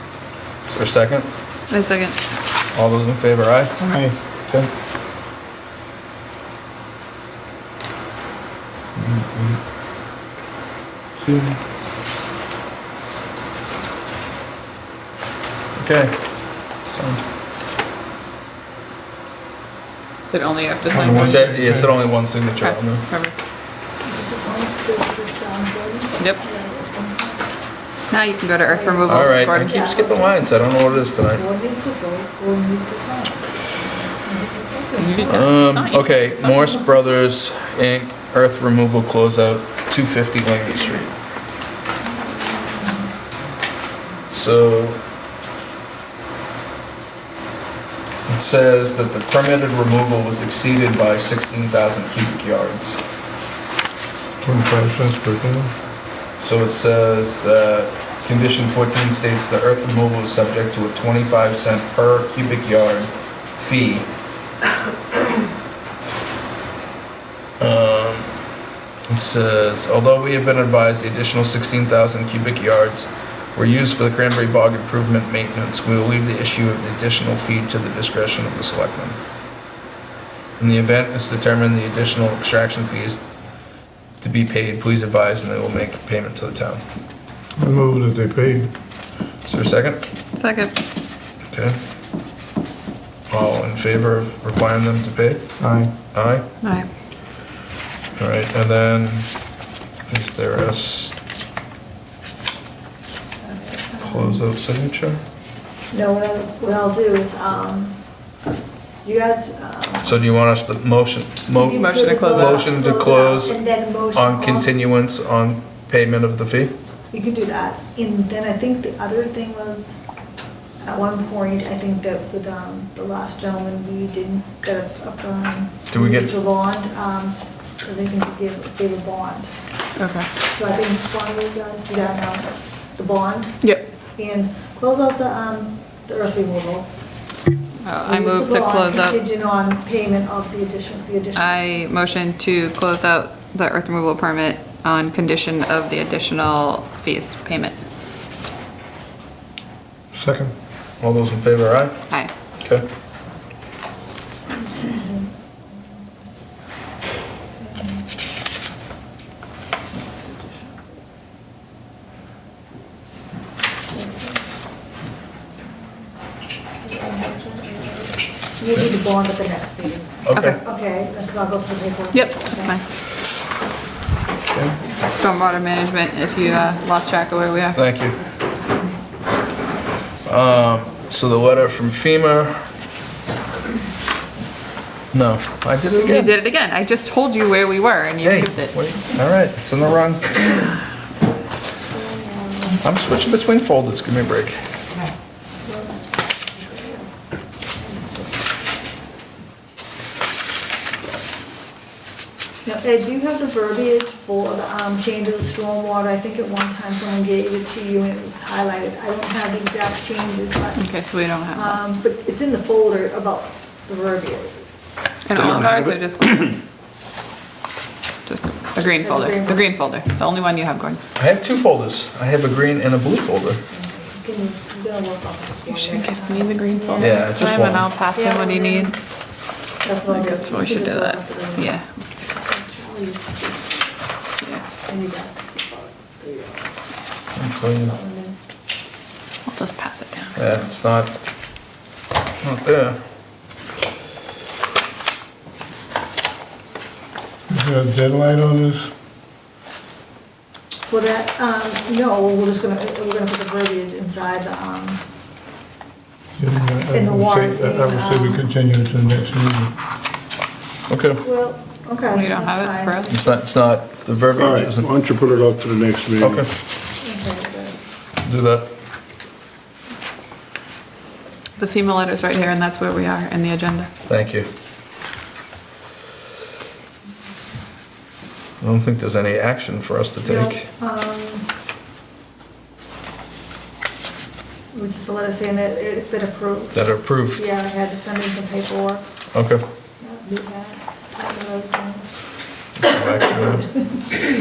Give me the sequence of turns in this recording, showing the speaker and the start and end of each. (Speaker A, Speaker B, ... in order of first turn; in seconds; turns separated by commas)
Speaker A: 0.7-1.3, Speaker B: 1.7-2.1, Speaker A: 2.7-3.8, Speaker C: 3.8-4.2, Speaker A: 8.9-9.6, Speaker A: 11.2-11.6, Speaker A: 15.8-16.1, Speaker A: 16.9-17.2, Speaker B: 20.3-21.5, Speaker C: 20.9-21.9, Speaker A: 21.1-23.0, Speaker B: 22.5-23.4, Speaker D: 24.0-27.4, Speaker B: 28.1-29.8, Speaker D: 28.7-35.3, Speaker A: 29.1-31.4, Speaker B: 35.0-36.7, Speaker A: 35.2-41.1, Speaker D: 42.2-43.0, Speaker A: 44.3-45.0, Speaker A: 48.3-53.0, Speaker C: 54.4-55.7, Speaker A: 56.4-64.1, Speaker A: 67.6-68.3, Speaker A: 69.1-79.2, Speaker A: 80.6-83.2, Speaker A: 84.2-86.8, Speaker C: 87.6-88.7, Speaker A: 89.4-90.0, Speaker B: 90.3-90.7, Speaker A: 91.5-91.8, Speaker A: 93.3-95.4, Speaker C: 95.6-95.9, Speaker A: 96.1-96.5, Speaker B: 96.6-96.9, Speaker A: 98.2-99.3, Speaker A: 100.1-101.2, Speaker D: 103.4-104.4, Speaker A: 104.0-105.2, Speaker D: 105.9-108.0, Speaker D: 109.0-110.2, Speaker A: 110.0-113.6, Speaker D: 111.5-114.8, Speaker B: 111.6-112.6, Speaker A: 114.1-116.7, Speaker D: 117.1-120.0, Speaker D: 120.8-129.5, Speaker A: 125.9-126.3, Speaker B: 130.0-130.3, Speaker D: 130.5-136.9, Speaker B: 137.8-139.2, Speaker D: 138.0-141.6, Speaker B: 141.3-147.8, Speaker C: 150.1-150.5, Speaker A: 151.0-152.0, Speaker A: 152.6-152.8, Speaker D: 154.8-155.2, Speaker D: 157.6-158.0, Speaker D: 163.9-164.4, Speaker D: 166.8-172.8, Speaker A: 170.2-170.6, Speaker B: 172.1-172.9, Speaker A: 174.5-174.8, Speaker B: 175.0-177.8, Speaker A: 177.7-178.2, Speaker A: 180.2-182.6, Speaker A: 185.1-186.3, Speaker B: 186.0-188.7, Speaker A: 188.2-190.2, Speaker D: 191.9-192.8, Speaker A: 192.8-194.6, Speaker D: 195.7-196.0, Speaker D: 196.6-197.0, Speaker D: 202.6-210.9, Speaker B: 210.8-211.8, Speaker D: 211.5-214.7, Speaker B: 215.2-216.6, Speaker B: 218.2-221.0, Speaker D: 219.0-219.7, Speaker A: 221.2-223.6, Speaker D: 223.7-227.6, Speaker B: 225.7-229.1, Speaker A: 227.0-227.9, Speaker D: 228.1-229.0, Speaker D: 229.8-233.9, Speaker B: 230.1-231.9, Speaker D: 234.5-236.8, Speaker A: 237.4-237.9, Speaker D: 237.8-238.3, Speaker B: 239.4-240.3, Speaker A: 240.3-241.1, Speaker A: 242.4-243.0, Speaker C: 247.5-248.9, Speaker D: 250.9-255.0, Speaker C: 256.4-259.7, Speaker D: 256.9-258.4, Speaker A: 260.9-261.2, Speaker D: 261.2-263.5, Speaker B: 262.1-263.1, Speaker A: 263.1-264.9, Speaker E: 264.4-266.4, Speaker A: 266.2-266.5, Speaker D: 267.0-267.8, Speaker A: 268.2-268.7, Speaker B: 271.6-273.9, Speaker A: 274.1-274.5, Speaker A: 278.6-280.6, Speaker D: 280.2-281.5, Speaker D: 284.7-289.1, Speaker A: 286.7-287.4, Speaker A: 289.3-289.6, Speaker D: 290.0-292.1, Speaker A: 292.8-293.8